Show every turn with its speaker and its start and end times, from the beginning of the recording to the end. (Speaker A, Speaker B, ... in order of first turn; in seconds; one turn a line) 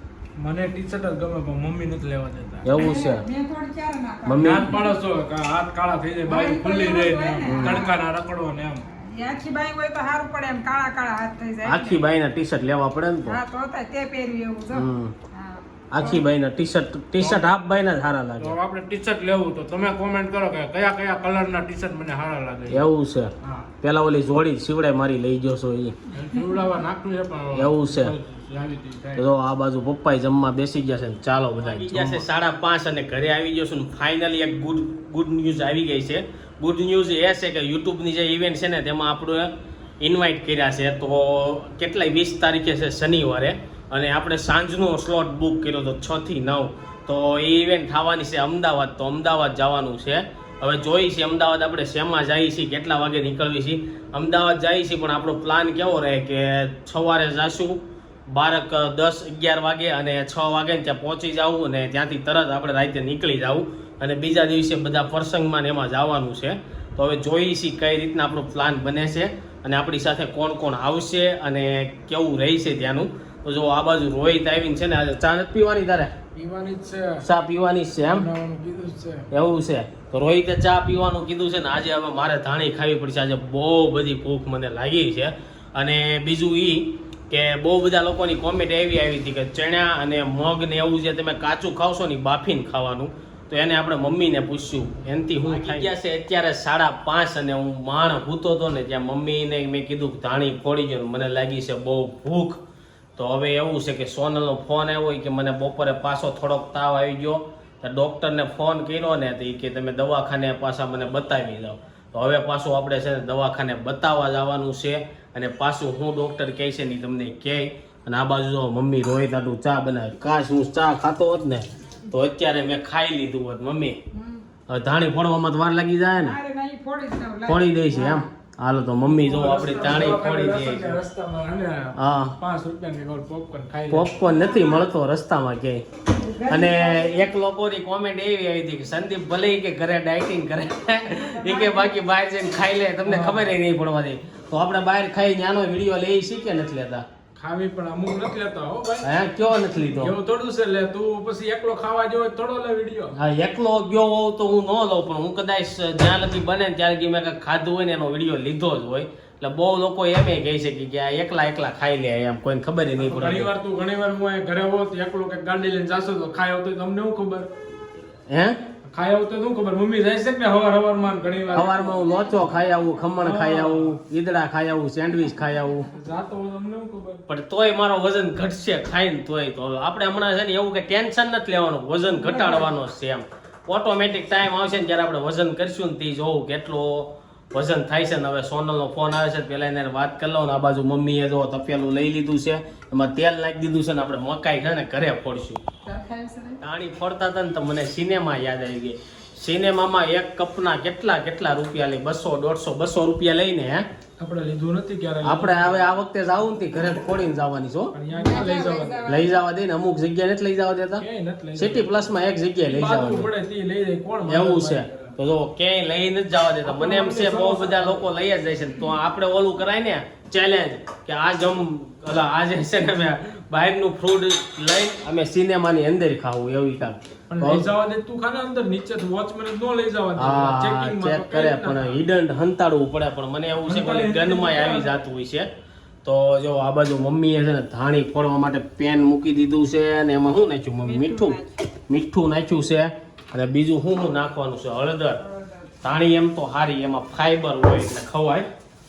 Speaker A: 0.4-2.7
Speaker B: 2.6-3.2
Speaker C: 2.7-5.0
Speaker B: 4.3-4.7
Speaker A: 4.4-8.8
Speaker C: 6.3-8.0
Speaker B: 7.5-7.9
Speaker C: 8.8-12.0
Speaker B: 11.7-13.4
Speaker C: 13.3-16.2
Speaker B: 14.7-15.1
Speaker B: 15.9-18.6
Speaker A: 17.2-17.4
Speaker A: 18.4-22.8
Speaker B: 22.7-26.0
Speaker A: 26.1-29.2
Speaker B: 27.5-28.2
Speaker B: 29.2-76.1
Speaker A: 31.6-32.2
Speaker A: 76.4-77.2
Speaker B: 77.2-78.3
Speaker A: 78.1-79.3
Speaker B: 79.3-102.6
Speaker B: 103.2-124.0
Speaker C: 124.1-124.5
Speaker B: 124.7-126.4
Speaker C: 126.2-128.2
Speaker B: 127.5-131.0
Speaker A: 129.1-134.2
Speaker B: 131.9-132.4
Speaker B: 133.9-135.8
Speaker C: 134.3-134.8
Speaker C: 136.1-137.3
Speaker B: 136.5-147.1
Speaker C: 141.1-142.0
Speaker A: 143.1-143.5
Speaker A: 147.4-149.1
Speaker B: 149.0-150.2
Speaker A: 150.0-153.1
Speaker B: 153.1-163.5
Speaker A: 163.0-167.5
Speaker B: 168.3-168.6
Speaker A: 168.9-172.1
Speaker C: 171.5-173.1
Speaker B: 171.5-175.9
Speaker A: 173.2-174.0
Speaker A: 175.9-177.2
Speaker B: 177.3-195.6
Speaker A: 182.1-182.7
Speaker C: 195.9-196.6
Speaker B: 196.6-203.8
Speaker A: 204.2-205.9
Speaker B: 205.2-208.0
Speaker A: 207.9-209.0
Speaker C: 208.1-209.4
Speaker B: 209.1-213.3
Speaker A: 211.0-211.9
Speaker A: 212.7-215.1
Speaker B: 214.2-227.7
Speaker A: 216.6-218.1
Speaker A: 227.3-232.0
Speaker B: 230.2-235.5
Speaker A: 233.7-234.9
Speaker B: 236.0-245.2
Speaker C: 240.8-241.6
Speaker C: 245.2-245.7
Speaker B: 245.8-248.5